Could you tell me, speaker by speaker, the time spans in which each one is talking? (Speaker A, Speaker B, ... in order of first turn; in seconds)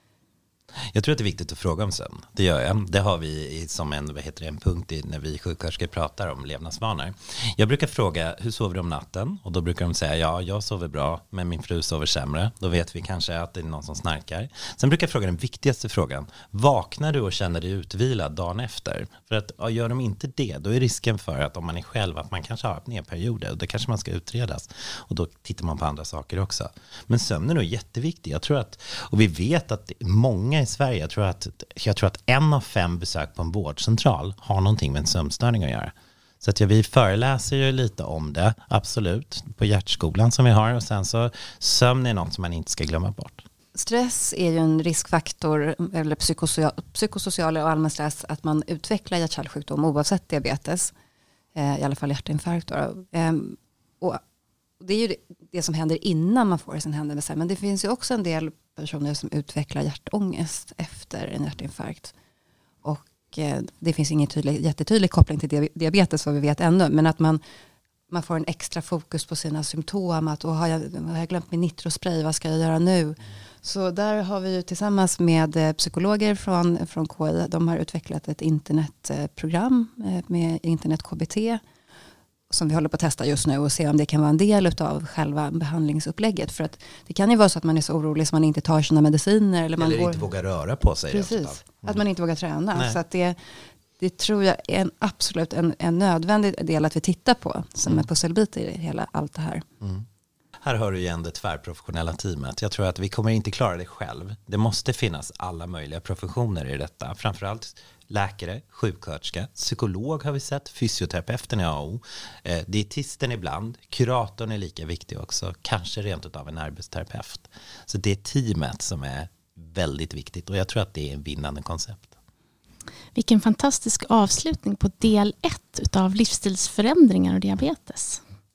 Speaker A: 0.9-43.4, 89.8-92.0, 100.6-122.1
Speaker B: 43.7-50.9, 51.5-54.2, 54.8-62.1, 62.8-67.4, 68.1-81.6, 82.5-90.3, 91.1-93.4, 94.0-99.6
Speaker C: 123.1-128.2